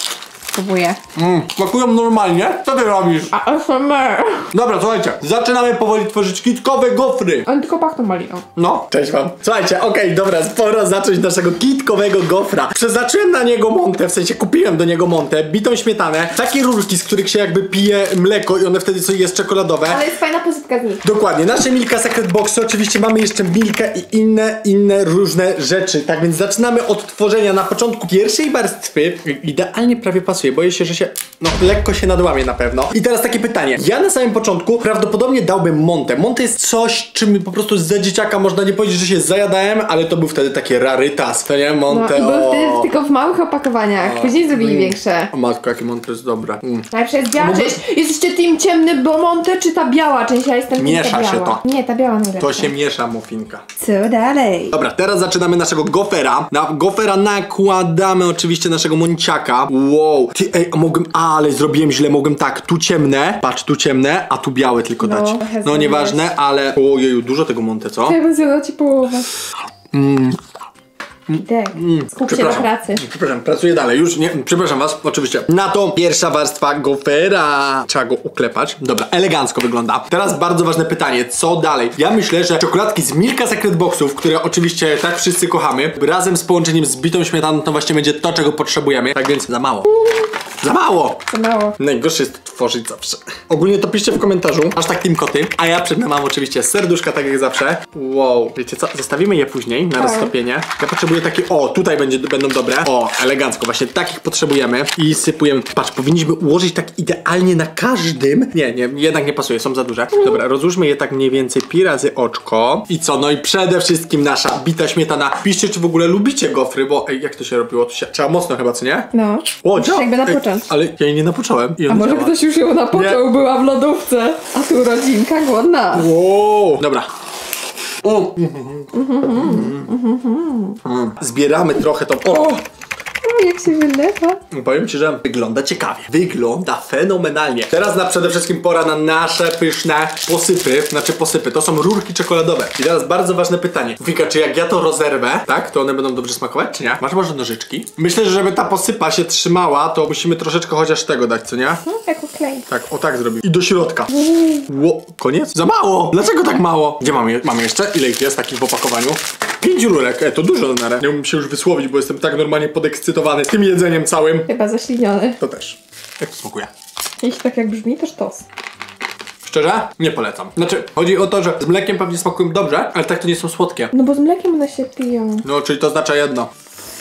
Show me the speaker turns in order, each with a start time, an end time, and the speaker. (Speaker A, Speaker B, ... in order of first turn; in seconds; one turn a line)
Speaker A: 0.5-1.0
Speaker B: 1.1-3.3
Speaker A: 3.3-4.5
Speaker B: 4.5-7.5
Speaker A: 7.5-8.4
Speaker B: 8.5-20.0
Speaker A: 19.8-21.0
Speaker B: 21.0-42.9
Speaker A: 41.9-45.3
Speaker B: 44.0-47.8
Speaker A: 46.9-52.7
Speaker B: 50.8-51.6
Speaker B: 52.4-53.6
Speaker A: 53.8-54.8
Speaker B: 54.7-68.2
Speaker A: 65.0-66.3
Speaker A: 68.0-69.3
Speaker B: 69.9-70.4
Speaker B: 71.3-89.9
Speaker A: 71.4-73.0
Speaker B: 90.6-91.2
Speaker A: 91.3-91.8
Speaker B: 91.8-119.1
Speaker A: 100.0-100.3
Speaker A: 119.1-120.7
Speaker B: 119.6-122.3
Speaker A: 121.9-126.1
Speaker B: 122.9-123.2
Speaker B: 125.9-127.1
Speaker B: 128.0-129.9
Speaker A: 128.9-130.8
Speaker B: 130.8-132.6
Speaker A: 133.2-134.4
Speaker B: 134.5-151.8
Speaker A: 151.8-152.7
Speaker B: 152.7-164.5
Speaker A: 164.5-165.4
Speaker B: 165.4-166.7
Speaker A: 167.2-168.4
Speaker B: 169.4-173.9
Speaker A: 173.9-175.4
Speaker B: 175.4-176.5